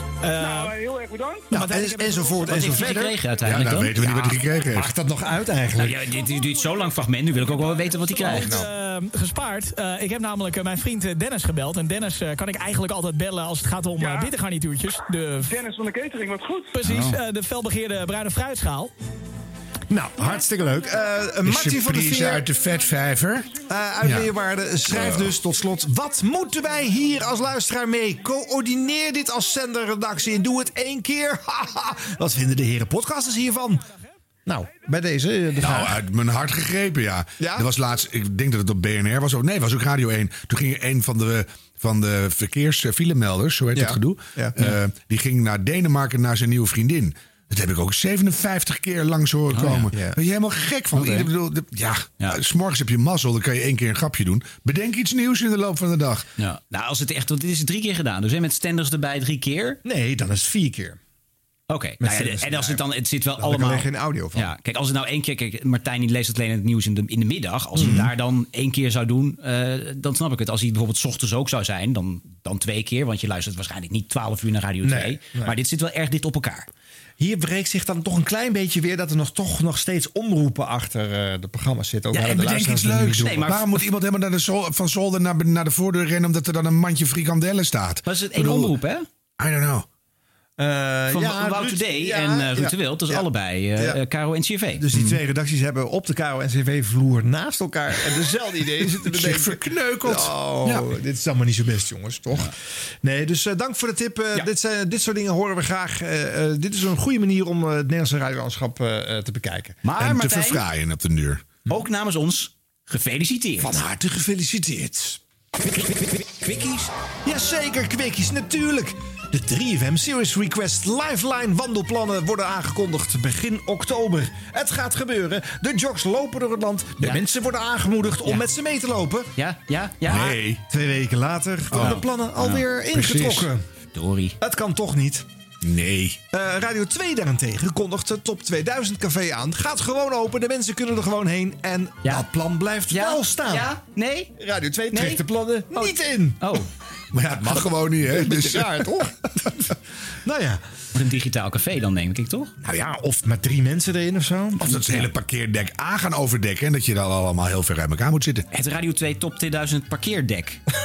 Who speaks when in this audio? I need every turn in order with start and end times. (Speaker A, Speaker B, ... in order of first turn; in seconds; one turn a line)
Speaker A: 0.3-0.7
Speaker B: 0.4-1.7
Speaker C: 1.5-3.2
Speaker A: 1.6-2.7
Speaker D: 2.5-4.4
Speaker E: 3.4-4.9
Speaker C: 4.7-6.1
Speaker D: 5.8-8.6
Speaker A: 8.1-15.5
Speaker C: 8.3-8.7
Speaker B: 14.0-14.3
Speaker B: 15.4-16.8
Speaker A: 16.7-18.9
Speaker C: 19.9-22.5
Speaker E: 21.4-24.3
Speaker C: 23.7-33.9
Speaker E: 24.9-25.4
Speaker C: 34.5-36.0
Speaker E: 35.6-56.3
Speaker C: 37.4-37.7
Speaker C: 43.8-44.6
Speaker D: 49.5-49.9
Speaker C: 49.9-50.2
Speaker D: 51.0-51.3
Speaker D: 56.4-59.8
Speaker C: 59.8-61.0
Speaker D: 61.7-76.7
Speaker C: 62.0-62.8
Speaker C: 63.4-64.5
Speaker C: 67.8-68.1
Speaker C: 74.8-75.6
Speaker C: 77.2-83.5
Speaker E: 82.1-88.7
Speaker D: 83.2-83.8
Speaker D: 88.1-89.0
Speaker E: 89.4-89.9
Speaker C: 90.6-94.0
Speaker D: 91.1-94.8
Speaker C: 94.8-109.8
Speaker E: 99.0-100.9
Speaker D: 109.8-110.6
Speaker E: 110.0-111.5
Speaker D: 111.7-113.8
Speaker C: 113.6-115.2
Speaker D: 116.4-116.8
Speaker C: 117.2-129.3
Speaker D: 129.4-130.3
Speaker E: 130.1-130.6
Speaker C: 130.7-133.7
Speaker E: 131.7-132.0
Speaker D: 131.8-132.6
Speaker E: 132.9-133.5
Speaker D: 133.9-134.4
Speaker C: 134.4-135.3
Speaker E: 135.6-136.2
Speaker C: 136.3-143.7
Speaker D: 142.9-144.3
Speaker C: 144.4-146.6
Speaker D: 144.9-145.2
Speaker D: 145.7-146.7
Speaker E: 147.1-148.9
Speaker C: 147.4-150.6
Speaker D: 150.9-152.5
Speaker C: 152.6-154.8
Speaker E: 154.6-158.5
Speaker D: 158.5-160.6